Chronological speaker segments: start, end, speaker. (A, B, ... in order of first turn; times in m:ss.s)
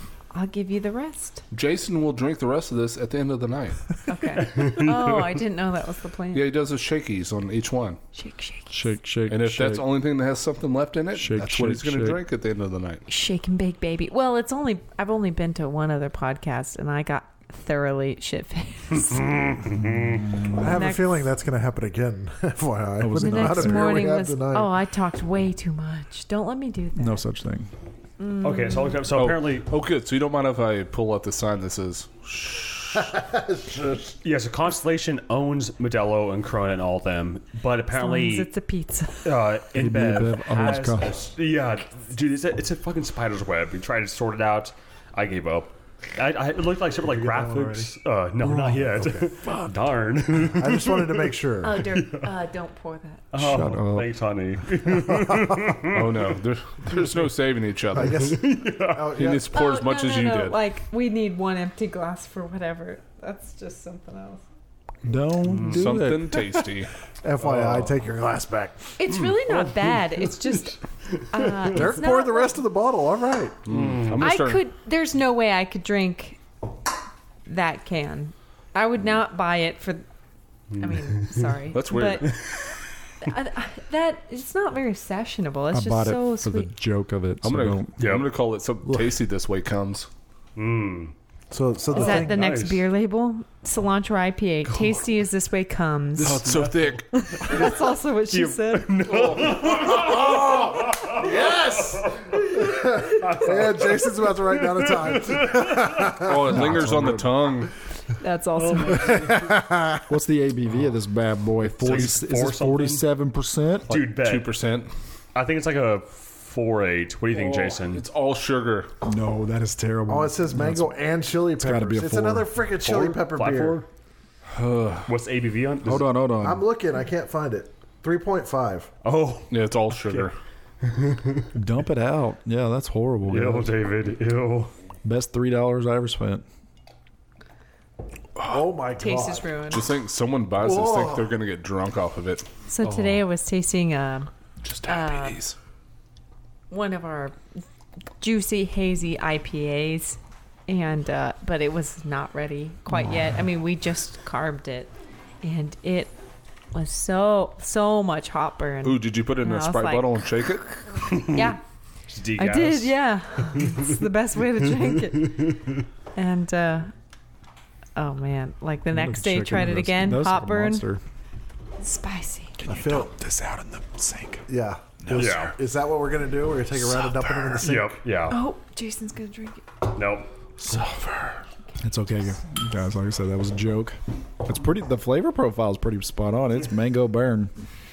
0:00.3-0:01.4 A
0:01.5-0:03.8 B
0:04.1-0:06.5 A
0:04.4-0:05.3 C
0:06.3-0:08.0 B
0:08.1-0:08.9 A
0:08.7-0:09.9 D
0:09.3-0:13.0 B
0:11.2-0:12.2 D
0:13.1-0:19.4 A
0:19.0-0:20.3 C
0:19.7-0:20.7 D
0:20.5-0:24.7 E
0:20.6-0:21.2 A
0:23.0-0:24.2 D
0:23.2-0:27.2 A
0:27.0-0:27.7 D
0:28.2-0:29.0 A
0:28.4-0:29.7 C
0:29.1-0:33.1 B
0:32.9-0:34.1 E
0:34.2-0:38.5 C
0:37.9-0:39.4 A
0:39.2-0:52.3 C
0:39.7-0:41.2 D
0:47.1-0:47.9 E
0:48.4-0:49.7 E
0:50.4-0:51.9 E
0:51.6-0:53.2 A
0:53.3-0:56.4 C
0:53.3-0:54.1 D
0:55.0-0:55.7 E
0:55.9-0:58.3 B
0:57.9-0:59.5 E
0:58.0-0:59.2 C
0:59.1-1:00.6 B
0:59.5-1:04.4 A
1:05.0-1:06.4 D
1:05.5-1:05.8 C
1:05.6-1:06.9 B
1:07.2-1:09.0 E
1:07.4-1:07.9 B
1:09.0-1:10.8 A
1:09.5-1:11.9 C
1:11.3-1:12.6 A
1:11.6-1:13.7 E
1:13.6-1:14.6 B
1:13.7-1:14.2 C
1:14.2-1:16.4 A
1:17.4-1:20.0 A
1:20.7-1:21.5 C
1:20.8-1:22.3 A
1:21.7-1:22.5 B
1:22.2-1:22.8 C
1:23.2-1:26.7 A
1:25.7-1:28.0 D
1:27.4-1:30.1 B
1:28.0-1:28.3 C
1:30.6-1:31.1 C
1:31.5-1:32.5 E
1:31.9-1:32.8 C
1:31.9-1:36.5 A
1:36.2-1:37.1 B
1:36.2-1:46.2 C
1:37.1-1:39.0 A
1:39.1-1:39.6 B
1:39.6-1:46.6 E
1:46.1-1:47.7 B
1:46.4-1:47.4 D
1:48.2-1:49.4 A
1:48.6-1:49.5 C
1:48.9-1:50.0 E
1:50.1-1:54.0 D
1:51.8-1:53.0 C
1:53.9-1:54.5 C
1:54.0-1:54.9 B
1:55.3-1:58.0 C
1:57.3-1:58.9 B
1:59.0-2:01.0 D
2:00.1-2:03.8 E
2:01.6-2:02.5 D
2:02.8-2:03.9 C
2:04.5-2:05.1 B
2:05.1-2:06.1 C
2:05.8-2:06.6 D
2:06.4-2:08.9 E
2:09.0-2:10.3 C
2:09.5-2:10.3 B
2:10.8-2:11.5 C
2:11.5-2:13.7 D
2:13.3-2:14.7 C
2:15.0-2:16.4 D
2:18.4-2:19.6 E
2:19.0-2:19.8 A
2:19.7-2:22.5 B
2:20.6-2:21.3 E
2:22.7-2:24.3 A
2:24.6-2:25.6 B
2:24.8-2:25.4 A
2:26.7-2:27.4 A
2:28.2-2:36.1 A
2:36.7-2:40.3 A
2:38.8-2:41.0 B
2:41.1-2:41.4 C
2:41.1-2:41.6 A
2:42.1-2:43.9 C
2:42.4-2:45.6 A
2:45.2-2:45.7 C
2:46.1-2:46.9 A
2:48.0-2:50.8 A
2:48.9-2:51.0 D
2:51.8-2:52.6 A
2:52.6-2:54.4 D
2:52.6-2:53.1 E
2:54.5-2:58.0 E
2:55.0-2:55.5 B
2:55.1-2:55.5 C
2:56.8-2:57.5 B
2:57.6-2:58.4 C
2:58.3-2:59.6 A
2:59.9-3:00.3 C
3:00.7-3:01.4 B
3:01.8-3:07.5 D